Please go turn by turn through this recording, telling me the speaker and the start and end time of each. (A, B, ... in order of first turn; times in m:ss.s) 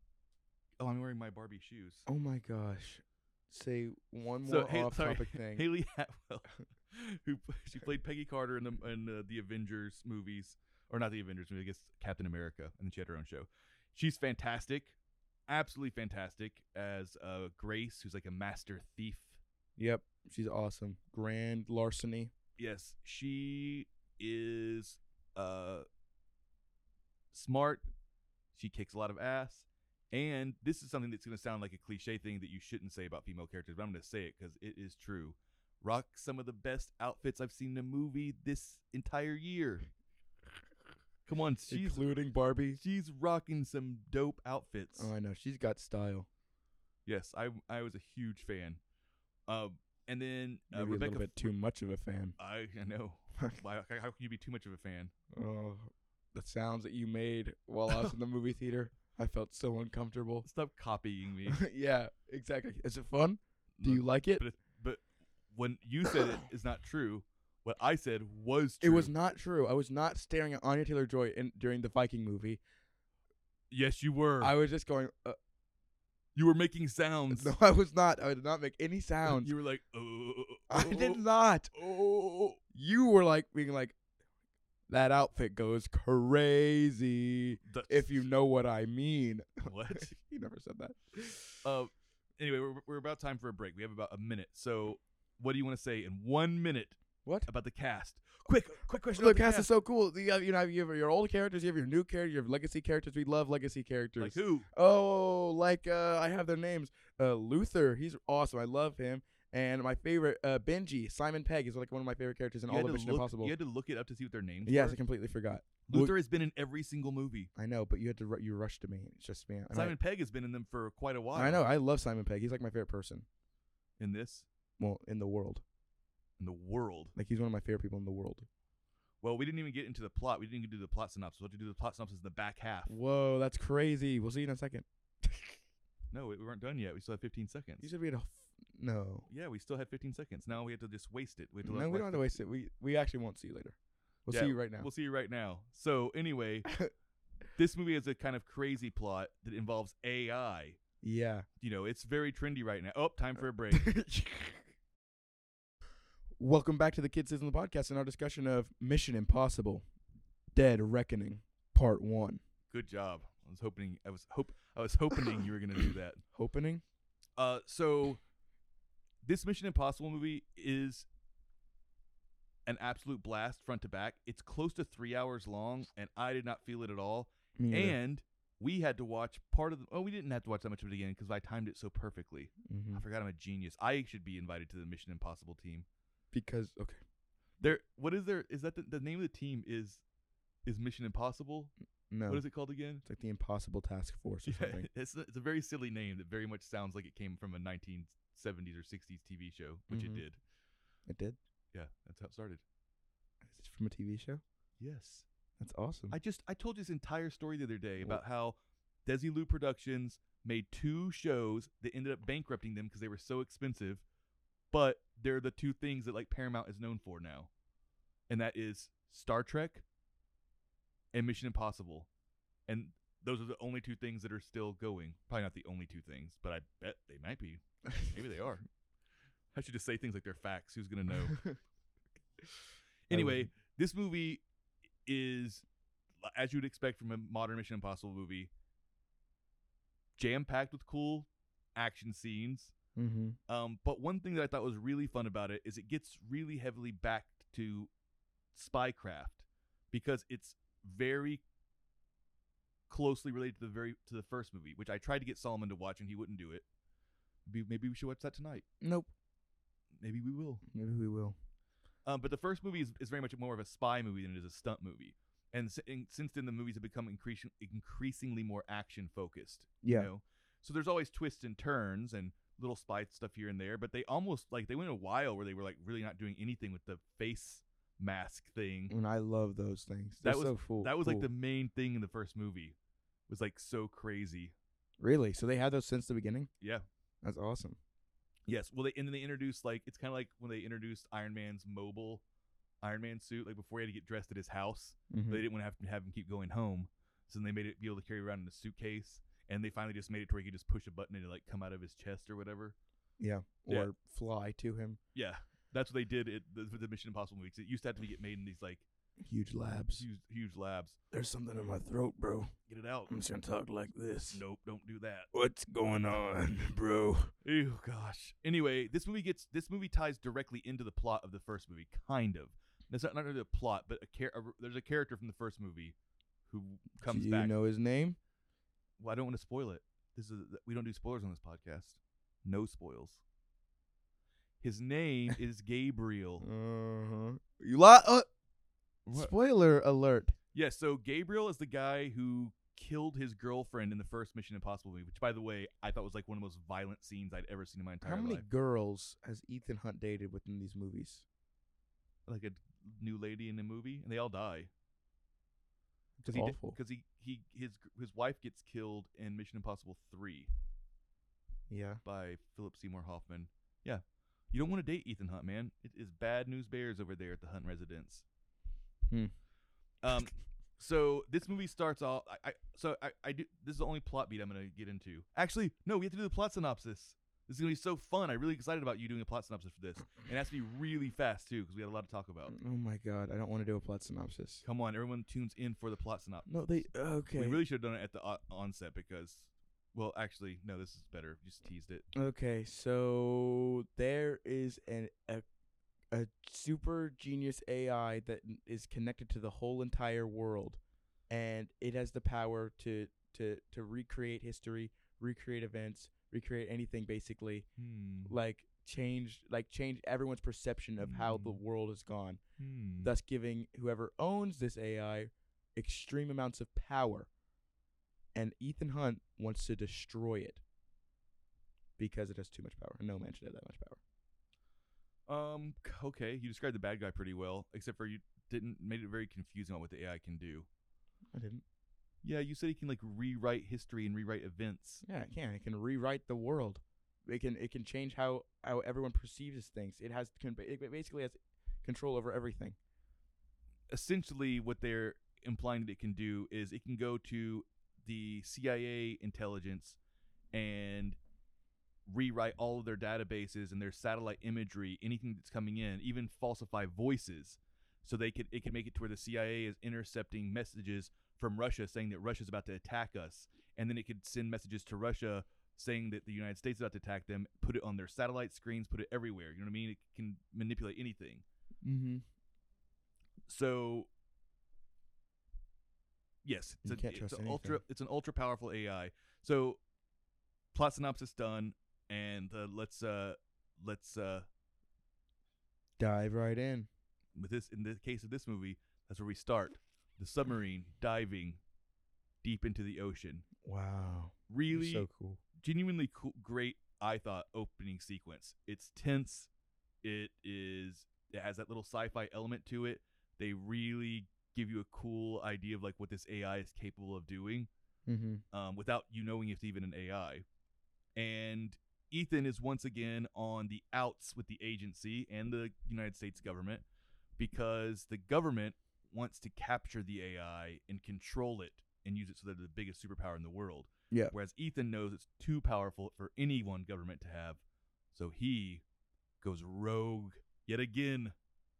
0:00.8-0:02.0 A
0:02.0-0:05.6 B
0:04.4-0:14.9 A
0:15.5-0:19.4 A
0:19.8-0:22.3 B
0:22.6-0:25.8 A
0:27.3-0:27.8 A
0:28.5-0:39.8 A
0:41.2-0:42.1 A
0:41.7-0:42.8 B
0:42.8-0:45.1 A
0:45.0-0:46.3 B
0:47.0-0:48.8 A
0:49.5-0:51.4 A
0:50.7-0:52.4 B
0:52.4-0:55.1 A
0:55.3-1:00.5 B
0:57.9-0:58.2 A
1:00.4-1:01.6 A
1:01.5-1:04.4 B
1:03.8-1:09.1 A
1:08.8-1:12.6 B
1:13.7-1:14.5 A
1:14.4-1:15.4 B
1:16.3-1:17.5 A
1:17.3-1:19.5 B
1:19.2-1:21.2 A
1:20.7-1:21.7 B
1:21.7-1:22.6 A
1:22.7-1:24.0 B
1:24.9-1:31.6 B
1:27.6-1:28.3 A
1:29.6-1:30.1 A
1:31.6-1:39.7 A
1:39.1-1:53.5 B
1:44.2-1:44.7 A
1:52.7-1:55.0 A
1:54.6-1:56.1 B
1:55.9-1:57.5 A
1:57.6-2:00.0 B
1:59.7-2:01.6 A
2:01.3-2:03.2 B
2:04.0-2:04.4 A
2:04.8-2:05.6 B
2:06.4-2:07.1 A
2:07.2-2:08.5 B
2:09.2-2:13.0 A
2:12.9-2:15.6 B
2:16.1-2:17.9 A
2:17.8-2:19.3 B
2:19.3-2:22.3 A
2:21.6-2:24.9 B
2:24.3-2:26.8 A
2:27.6-2:30.8 A
2:31.0-2:31.4 B
2:31.6-2:33.9 A
2:33.7-2:34.6 B
2:36.4-2:39.8 B
2:40.5-2:42.4 B
2:42.7-2:46.2 A
2:46.3-2:46.8 B
2:47.4-2:48.2 A
2:49.2-2:51.1 A
2:52.6-3:05.8 A
2:57.6-2:58.0 B
3:02.6-3:03.0 B
3:06.3-3:07.0 B
3:07.6-3:10.0 A
3:10.6-3:11.7 A
3:12.1-3:12.4 B
3:12.3-3:13.0 A
3:13.0-3:14.9 B
3:14.4-3:20.4 A
3:19.9-3:20.2 B
3:21.1-3:21.4 B
3:21.7-3:22.6 A
3:23.4-3:24.4 B
3:24.8-3:25.2 A
3:25.6-3:26.2 B
3:26.1-3:34.0 A
3:34.7-3:37.5 A
3:38.3-3:39.8 A
3:41.1-3:42.1 A
3:42.7-3:48.6 A
3:49.5-3:51.5 A
3:53.1-3:54.4 A
3:53.1-3:53.5 B
3:55.0-3:55.6 A
3:56.2-3:58.5 A
4:00.2-4:02.7 A
4:03.0-4:03.4 B
4:03.5-4:07.9 A
4:08.5-4:11.4 A
4:12.9-4:16.6 A
4:17.4-4:18.6 A
4:18.8-4:19.1 B
4:20.0-4:20.6 A
4:20.7-4:21.4 B
4:22.0-4:38.9 A
4:29.8-4:30.1 B
4:38.9-4:41.3 B
4:40.2-4:42.8 A
4:43.3-4:44.5 A
4:45.0-4:46.5 B
4:47.2-4:47.8 B
4:48.5-4:52.2 A
4:52.8-5:02.8 A
4:55.1-4:55.4 B
5:03.2-5:05.0 B
5:05.1-5:08.8 A
5:09.2-5:10.0 B
5:09.9-5:11.0 A
5:11.1-5:12.5 B
5:12.7-5:13.1 A
5:13.1-5:14.4 B
5:14.3-5:15.3 A
5:15.3-5:17.3 B
5:17.4-5:26.0 A
5:26.5-5:27.5 A
5:27.0-5:28.2 B
5:29.0-5:33.2 A
5:34.6-5:36.4 A
5:36.4-5:38.3 B
5:39.0-5:39.3 A
5:39.1-5:40.4 B
5:40.5-5:48.4 A
5:48.0-5:51.2 B
5:52.3-5:54.7 A
5:56.2-5:56.8 B
5:56.3-6:00.5 A
6:01.7-6:02.0 B
6:02.0-6:08.2 A
6:09.1-6:09.3 B
6:10.0-6:22.5 A
6:22.5-6:24.6 B
6:24.6-6:26.6 A
6:26.4-6:27.6 B
6:27.3-6:32.0 A
6:32.1-6:35.4 B
6:36.1-6:47.7 B
6:47.8-6:48.3 A
6:48.2-6:52.4 B
6:51.0-6:51.6 A
6:52.6-6:53.1 A
6:53.0-6:57.3 B
6:58.3-7:00.6 B
7:02.0-7:04.0 B
7:05.3-7:10.7 A
7:11.3-7:11.6 B
7:12.2-7:15.0 A
7:15.0-7:22.8 B
7:23.9-7:30.0 A
7:30.5-7:31.2 A
7:32.1-7:51.4 A
7:51.8-7:52.2 B
7:53.5-7:54.1 A
7:56.4-7:59.8 A
7:56.8-7:57.8 B
8:00.7-8:04.4 A
8:06.0-8:06.9 B
8:07.3-8:11.6 A
8:12.4-8:13.5 A
8:13.6-8:15.4 B
8:14.5-8:19.5 A
8:20.0-8:27.7 A
8:28.1-8:28.4 B
8:28.5-8:30.4 A
8:31.2-8:36.8 A
8:37.4-8:47.6 A
8:48.1-8:48.8 A
8:49.4-8:51.3 A